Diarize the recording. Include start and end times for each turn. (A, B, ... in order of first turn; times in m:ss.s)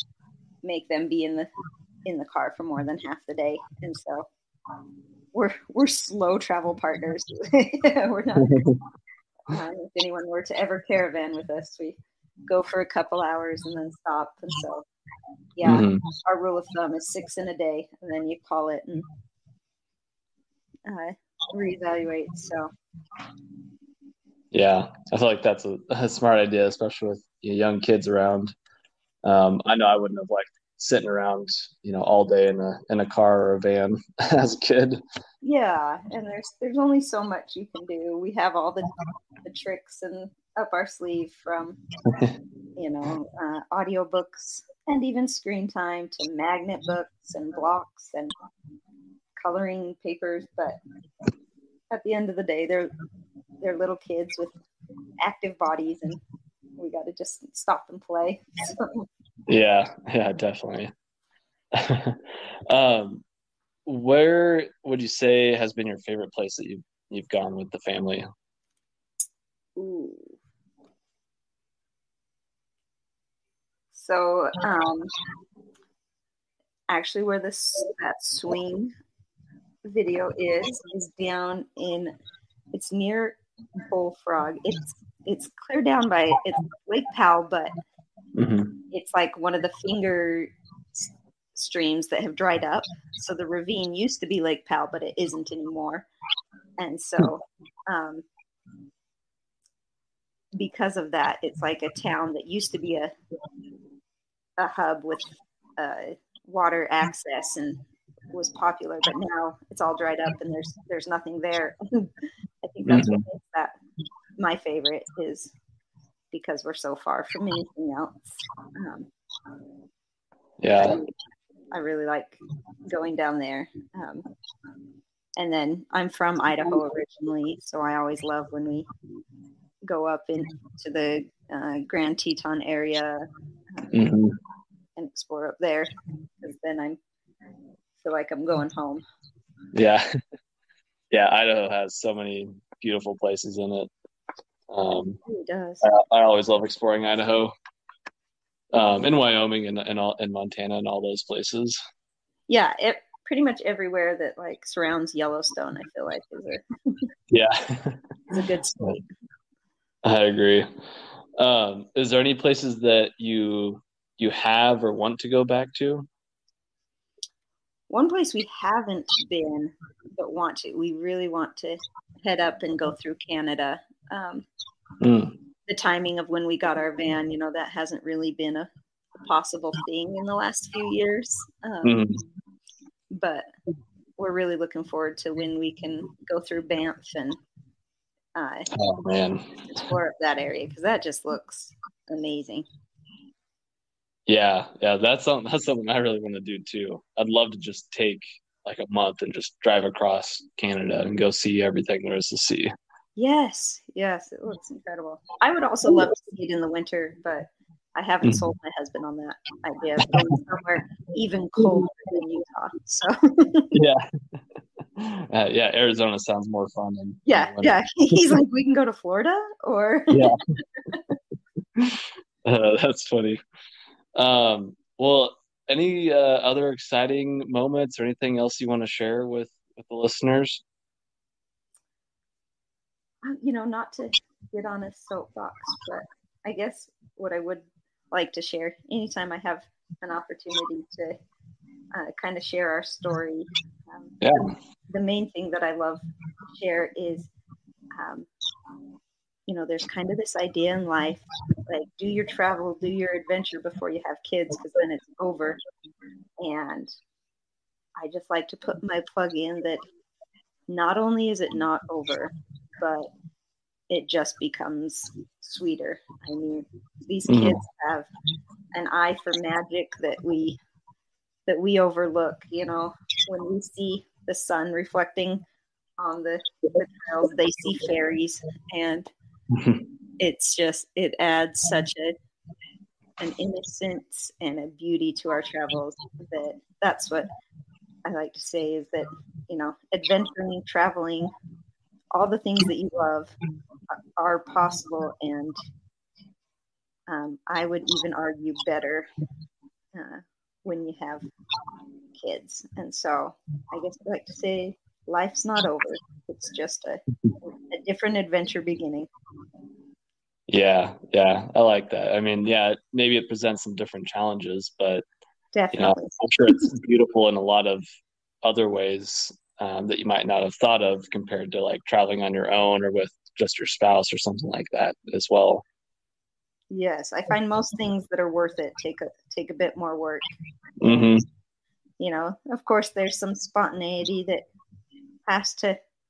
0:00.6-0:01.5 A
0:02.0-0:04.3 A
0:05.3-0:08.6 A
0:08.4-0:08.8 B
0:09.5-0:14.8 A
0:15.6-0:19.1 A
0:15.6-0:16.0 B
0:20.8-0:22.7 A
0:24.5-0:28.5 B
0:29.2-0:35.0 B
0:35.4-0:38.9 A
0:39.4-0:41.8 A
0:42.8-0:48.3 A
0:49.4-0:50.8 A
0:51.9-0:52.9 A
0:53.6-0:54.5 A
0:55.2-0:56.2 A
0:56.8-0:59.0 A
0:59.5-1:00.9 B
1:01.7-1:03.2 B
1:03.8-1:08.3 B
1:09.8-1:10.4 A
1:13.9-1:15.1 A
1:16.9-1:18.9 A
1:19.8-1:22.1 A
1:22.7-1:27.7 A
1:28.3-1:28.7 B
1:28.9-1:36.1 A
1:36.8-1:38.2 A
1:40.5-1:43.1 A
1:44.6-1:47.8 A
1:48.3-1:52.1 A
1:52.6-1:53.7 A
1:52.9-1:53.2 B
1:54.4-1:55.5 A
1:56.3-1:59.1 A
2:00.6-2:01.0 B
2:00.7-2:01.1 A
2:01.7-2:04.2 A
2:05.4-2:08.9 A
2:09.8-2:13.9 A
2:13.9-2:14.3 B
2:15.0-2:17.0 A
2:18.0-2:19.0 A
2:19.7-2:20.1 B
2:21.1-2:23.9 B
2:24.7-2:25.2 B
2:25.2-2:25.8 A
2:25.8-2:27.5 B
2:28.7-2:31.8 B
2:32.5-2:37.1 A
2:37.3-2:38.0 B
2:38.3-2:39.0 A
2:40.0-2:40.7 B
2:41.4-2:46.1 B
2:47.9-2:54.4 A
2:55.0-2:55.3 B
2:55.7-2:58.7 A
2:59.2-3:02.0 A
3:01.8-3:02.2 B
3:03.1-3:03.5 A
3:04.2-3:07.4 A
3:08.3-3:08.7 A
3:08.7-3:09.5 B
3:09.5-3:12.6 A
3:14.3-3:22.7 B
3:23.2-3:33.7 A
3:33.7-3:34.0 B
3:35.0-3:37.8 B
3:37.3-3:40.3 A
3:40.1-3:40.4 B
3:41.8-3:43.4 B
3:44.1-3:50.6 B
3:53.2-4:01.2 A
4:01.9-4:04.2 A
4:04.2-4:04.5 B
4:04.9-4:07.3 A
4:07.9-4:08.3 A
4:09.5-4:15.6 A
4:16.4-4:16.9 A
4:18.0-4:19.8 A
4:20.7-4:23.1 A
4:23.9-4:28.1 A
4:27.3-4:27.6 B
4:28.7-4:30.6 A
4:31.5-4:35.4 A
4:36.0-4:39.1 A
4:39.5-4:39.8 B
4:40.2-4:42.2 A
4:43.2-4:47.3 A
4:48.0-4:51.3 A
4:52.1-4:53.4 A
4:54.2-4:55.6 A
4:57.1-4:59.1 A
4:59.9-5:01.3 A
5:02.2-5:07.0 A
5:07.6-5:09.1 A
5:10.5-5:15.0 B
5:15.5-5:16.6 A
5:15.7-5:17.8 B
5:18.4-5:25.6 B
5:26.7-5:30.2 A
5:30.8-5:31.2 B
5:30.8-5:31.2 A
5:32.0-5:34.4 A
5:35.3-5:35.8 A